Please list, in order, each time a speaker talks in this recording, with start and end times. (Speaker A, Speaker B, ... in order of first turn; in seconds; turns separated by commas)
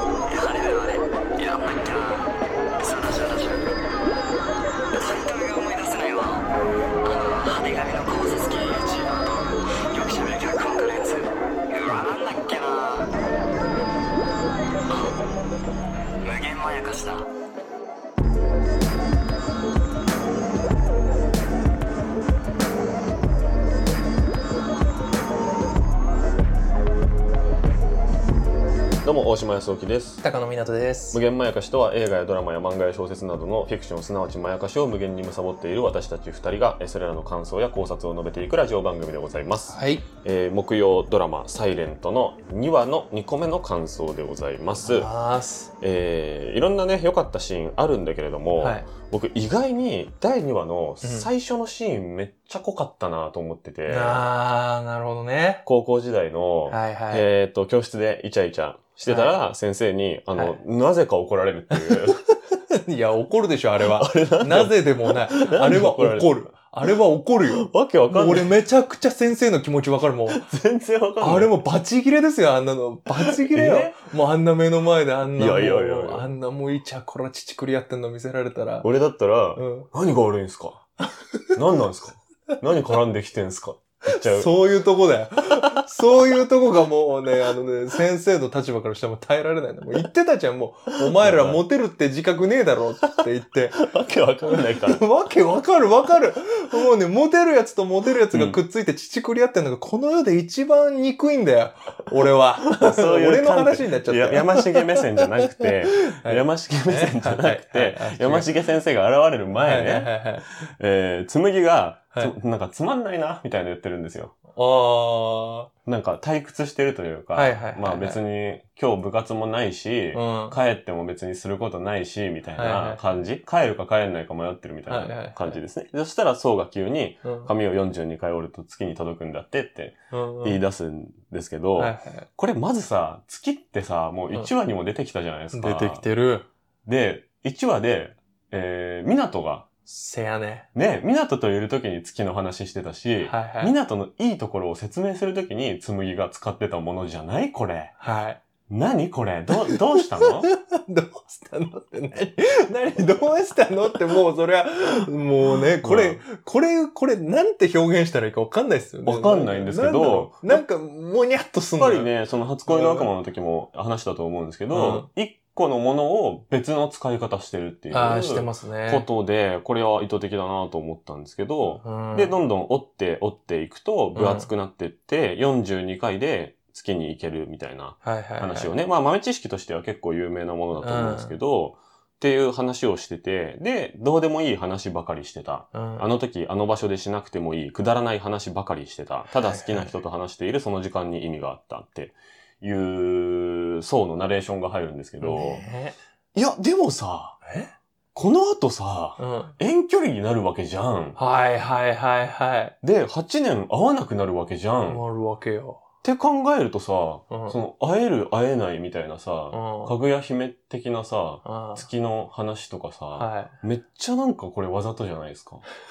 Speaker A: 0.3-3.7, Speaker A: 4.9-6.5, Speaker A: 7.0-13.1, Speaker A: 14.9-15.1, Speaker A: 16.2-17.3, Speaker B: 29.0-30.2, Speaker C: 30.2-31.2, Speaker B: 31.1-45.1, Speaker C: 39.7-40.0, Speaker C: 44.8-45.7, Speaker B: 45.8-54.2, Speaker C: 48.6-48.9, Speaker C: 51.0-51.3, Speaker C: 53.9-55.6, Speaker B: 55.6-62.2, Speaker C: 56.7-57.2, Speaker C: 59.1-59.3, Speaker C: 61.7-62.1, Speaker C: 62.7-70.5, Speaker B: 63.8-66.3, Speaker B: 67.5-68.5, Speaker B: 70.3-71.5, Speaker C: 71.2-78.9, Speaker B: 73.2-74.0, Speaker B: 75.4-76.3, Speaker B: 78.8-80.8, Speaker C: 79.5-79.9, Speaker B: 81.5-84.5, Speaker C: 84.1-93.8, Speaker B: 85.5-86.2, Speaker B: 91.1-91.6, Speaker B: 93.7-95.0, Speaker C: 94.7-108.5, Speaker B: 98.3-98.6, Speaker B: 102.7-114.3, Speaker C: 109.6-110.7, Speaker C: 114.5-115.7, Speaker B: 115.8-136.0, Speaker C: 117.3-118.2, Speaker C: 120.1-120.5, Speaker C: 122.6-123.0, Speaker C: 124.9-125.6, Speaker C: 127.2-127.5, Speaker C: 130.1-130.6, Speaker C: 131.8-132.3, Speaker C: 135.5-136.5, Speaker B: 136.8-139.7, Speaker C: 139.8-140.7, Speaker B: 140.7-147.9, Speaker C: 143.2-143.7, Speaker C: 148.0-148.4, Speaker B: 148.7-150.5, Speaker C: 149.6-162.1, Speaker B: 155.8-156.2, Speaker B: 159.0-160.6, Speaker B: 161.8-195.6, Speaker C: 162.7-163.1, Speaker C: 164.7-165.1, Speaker C: 167.9-169.1, Speaker C: 171.8-172.4, Speaker C: 174.1-174.5, Speaker C: 178.0-178.7, Speaker C: 180.8-181.4, Speaker C: 185.7-186.1, Speaker C: 189.4-189.9, Speaker C: 195.2-196.0, Speaker B: 196.3-197.4, Speaker C: 197.4-197.7, Speaker B: 198.1-201.2, Speaker C: 199.2-199.6, Speaker C: 201.2-202.7, Speaker B: 202.8-205.0, Speaker C: 204.9-205.8, Speaker B: 206.0-215.6, Speaker C: 207.3-207.6, Speaker C: 209.5-209.9, Speaker C: 211.4-211.8, Speaker C: 213.1-213.5